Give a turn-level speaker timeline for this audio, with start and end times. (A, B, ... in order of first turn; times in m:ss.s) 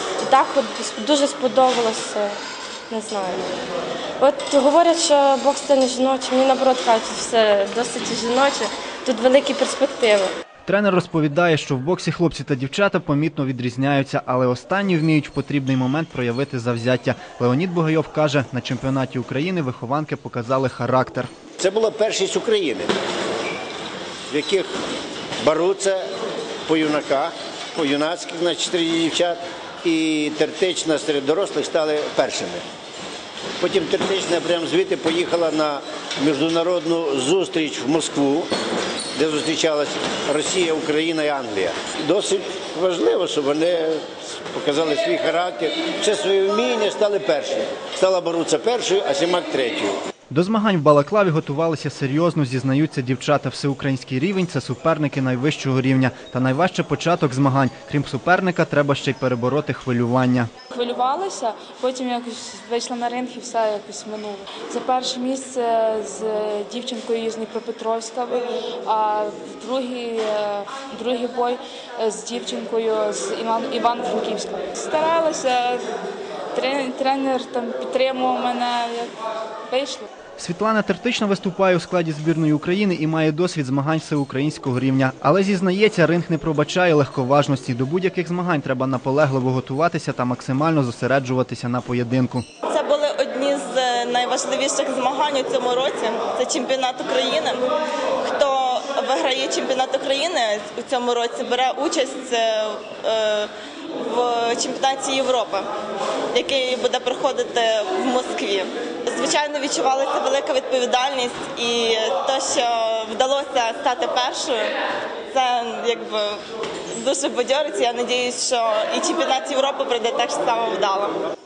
0:00.2-0:02.4 A
0:02.9-0:03.4 A
0:04.2-0:10.3 A
0:10.6-0:21.3 B
0:21.6-0:22.9 C
0:24.3-0:24.7 C
0:25.4-0:26.0 C
0:26.7-0:32.6 C
0:33.6-0:38.5 C
0:39.2-0:50.0 C
0:50.3-1:00.5 B
1:00.7-1:15.8 D
1:16.5-1:19.1 D
1:19.7-1:20.1 D
1:20.4-1:32.4 B
1:32.7-1:37.6 E
1:38.2-1:45.7 E
1:46.3-1:54.7 E
1:55.3-1:56.4 E
1:56.9-2:01.2 E